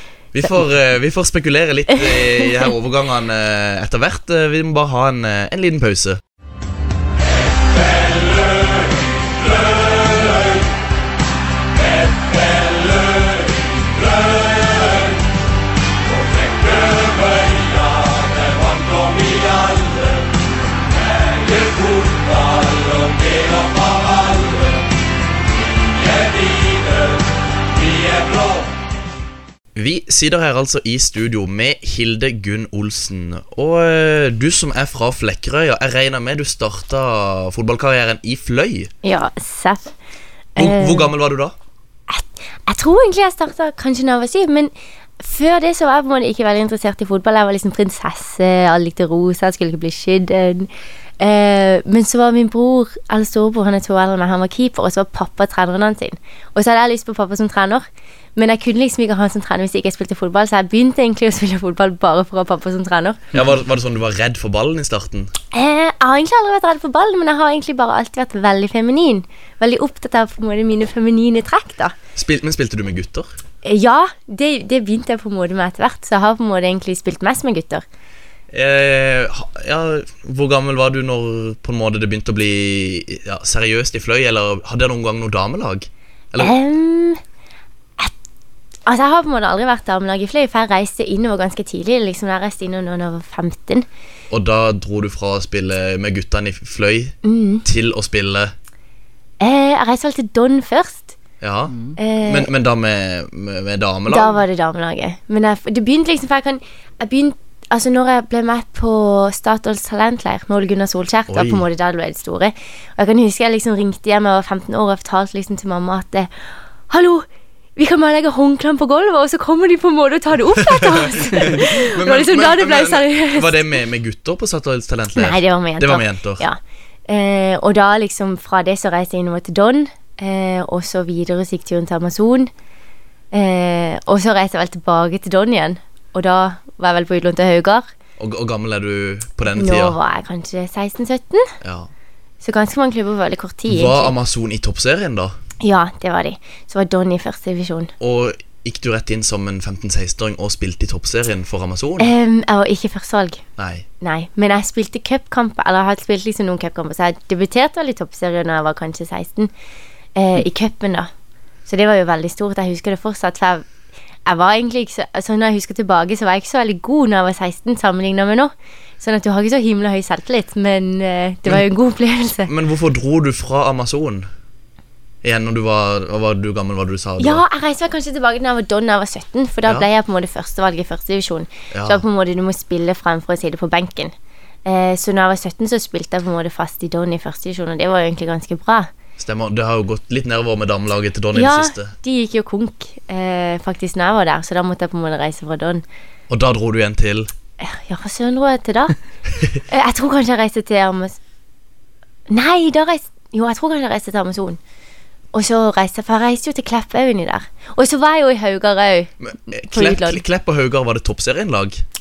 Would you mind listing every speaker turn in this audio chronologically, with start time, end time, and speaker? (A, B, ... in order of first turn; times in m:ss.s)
0:00.3-0:06.2 A
0:02.0-0:02.2 B
0:29.8-0:38.9 A
0:39.0-0:39.9 B
0:40.6-0:41.1 B
0:40.6-0:41.6 A
0:42.1-1:03.2 B
1:03.3-1:05.3 A
1:05.5-1:12.0 B
1:12.2-1:13.3 A
1:13.6-1:17.8 B
1:18.5-1:26.6 A
1:26.4-1:27.2 B
1:28.9-1:33.9 B
1:34.3-1:38.5 A
1:37.2-1:37.6 B
1:39.4-1:41.2 B
1:41.4-1:44.4 A
1:42.0-1:42.5 B
1:44.1-1:56.3 B
1:51.3-1:51.6 A
1:56.9-2:03.7 B
2:00.6-2:06.4 A
2:05.2-2:12.5 B
2:13.3-2:17.9 B
2:18.2-2:20.0 A
2:19.5-2:21.5 B
2:21.6-2:21.9 A
2:22.4-2:24.1 B
2:23.7-2:25.4 A
2:25.6-2:27.9 B
2:28.0-2:32.1 A
2:32.0-2:33.4 B
2:33.6-2:33.9 A
2:34.0-2:39.5 B
2:40.2-2:41.1 B
2:41.7-2:43.6 B
2:44.3-2:52.5 B
2:52.5-2:54.3 A
2:55.2-2:57.4 A
2:57.2-3:04.1 B
3:01.7-3:02.0 A
3:04.6-3:08.9 B
3:09.2-3:11.9 A
3:11.3-3:15.8 B
3:16.3-3:17.3 A
3:17.6-3:19.0 B
3:19.7-3:21.2 B
3:22.3-3:24.6 B
3:25.3-3:30.2 B
3:29.2-3:31.8 A